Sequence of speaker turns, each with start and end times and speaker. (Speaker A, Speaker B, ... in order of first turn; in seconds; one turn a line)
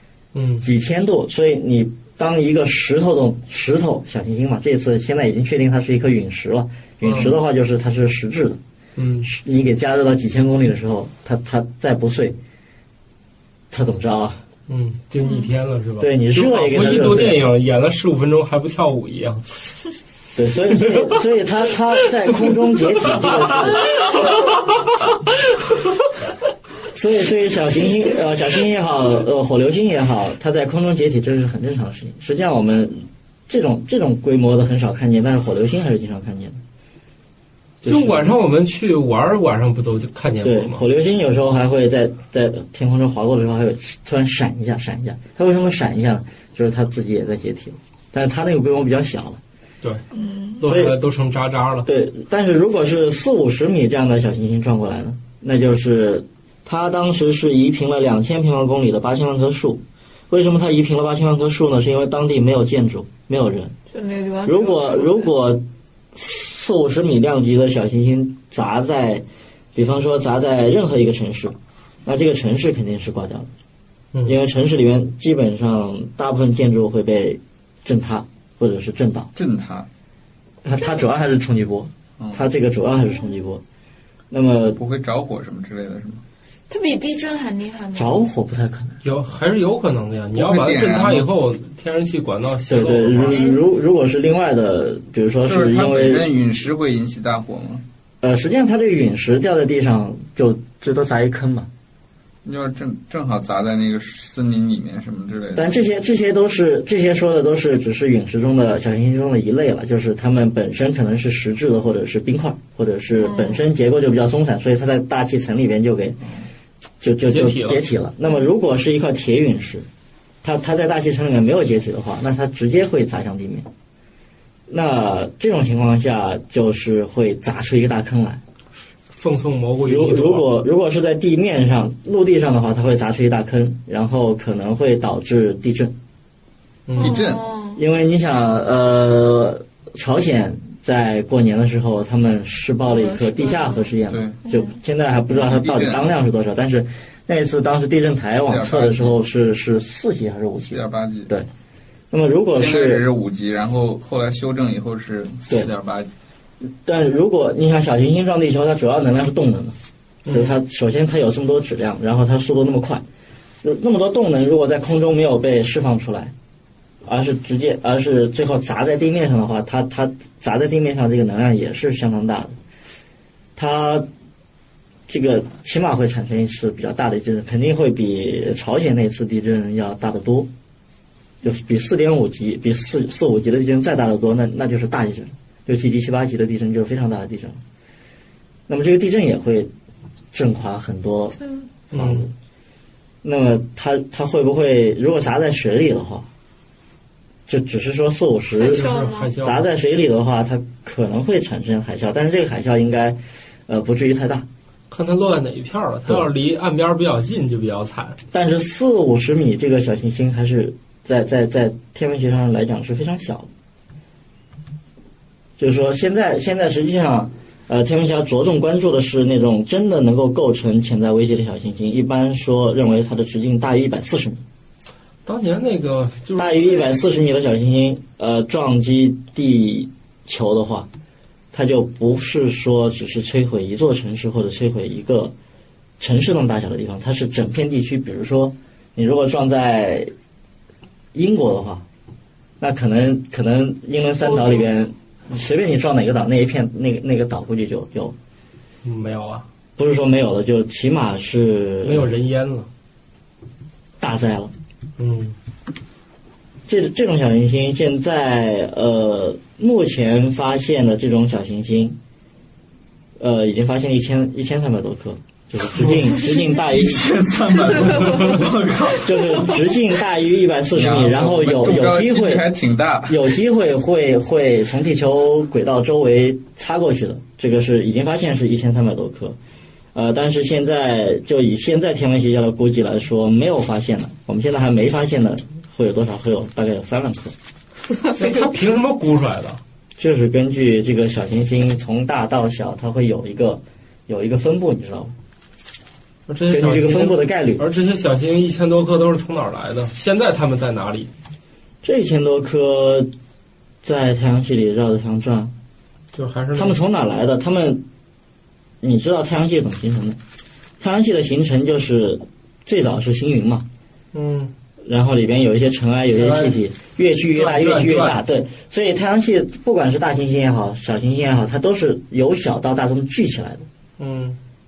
Speaker A: 0.3-0.6
Speaker B: 0.6-8.6
Speaker A: 7.0-7.3
Speaker A: 8.9-9.3
Speaker B: 9.2-12.3
Speaker B: 13.7-14.4
Speaker A: 14.7-19.4
Speaker C: 15.2-15.5
Speaker B: 16.0-17.4
Speaker B: 20.4-23.9
Speaker B: 26.9-36.6
Speaker B: 37.8-38.3
Speaker A: 37.8-40.8
Speaker B: 40.4-49.4
Speaker C: 50.1-50.6
Speaker A: 50.6-51.9
Speaker B: 50.6-51.0
Speaker B: 51.8-63.7
Speaker C: 63.9-65.3
Speaker B: 64.5-65.6
Speaker B: 66.1-73.5
Speaker B: 74.2-79.3
Speaker D: 79.3-79.9
Speaker B: 80.6-83.6
Speaker B: 84.3-84.8
Speaker D: 84.8-86.2
Speaker C: 86.7-88.2
Speaker B: 87.9-89.0
Speaker A: 89.0-93.4
Speaker D: 90.3-91.3
Speaker B: 92.7-96.3
Speaker C: 93.3-93.6
Speaker D: 95.4-97.8
Speaker B: 98.2-101.7
Speaker D: 102.4-105.8
Speaker B: 105.5-116.2
Speaker C: 113.2-113.6
Speaker B: 117.0-119.8
Speaker A: 117.3-117.8
Speaker B: 120.4-123.7
Speaker B: 124.7-128.4
Speaker A: 129.1-130.5
Speaker B: 129.8-135.9
Speaker A: 136.9-137.2
Speaker C: 136.9-137.8
Speaker D: 137.0-137.5
Speaker B: 137.7-150.8
Speaker C: 142.8-143.9
Speaker D: 144.1-144.4
Speaker D: 145.3-146.1
Speaker D: 148.4-149.2
Speaker D: 150.6-151.3
Speaker B: 152.1-153.0
Speaker D: 152.5-156.1
Speaker B: 156.6-159.8
Speaker A: 160.2-160.6
Speaker B: 160.3-163.0
Speaker B: 163.6-166.3
Speaker B: 167.0-172.5
Speaker B: 173.6-174.1
Speaker B: 175.1-180.5
Speaker B: 181.4-187.6
Speaker B: 188.7-189.7
Speaker B: 190.3-191.4
Speaker B: 191.9-192.3
Speaker A: 191.9-192.2
Speaker B: 193.2-196.3
Speaker B: 197.5-204.4
Speaker C: 198.5-199.3
Speaker A: 198.7-199.7
Speaker A: 204.9-208.2
Speaker B: 208.3-213.5
Speaker B: 215.6-224.4
Speaker A: 225.2-226.8
Speaker B: 226.4-230.9
Speaker B: 231.5-235.3
Speaker B: 236.0-240.1
Speaker B: 241.1-241.8
Speaker B: 242.6-248.1
Speaker C: 244.3-244.7
Speaker A: 248.8-249.4
Speaker B: 249.8-252.1
Speaker A: 251.8-252.7
Speaker B: 254.0-254.5
Speaker A: 255.0-255.3
Speaker B: 256.7-262.0
Speaker B: 263.2-267.1
Speaker D: 266.4-269.6
Speaker B: 269.0-272.4
Speaker D: 270.7-273.3
Speaker B: 273.1-279.4
Speaker B: 279.9-287.3
Speaker A: 288.1-289.6
Speaker B: 290.0-295.1
Speaker A: 296.3-301.1
Speaker B: 296.5-297.6
Speaker B: 301.8-303.1
Speaker B: 303.8-305.5
Speaker A: 306.1-306.8
Speaker B: 306.5-307.8
Speaker B: 308.8-310.2
Speaker B: 310.8-313.6
Speaker A: 314.1-314.5
Speaker B: 314.8-323.6
Speaker A: 316.1-316.6
Speaker A: 317.3-318.2
Speaker A: 324.0-324.4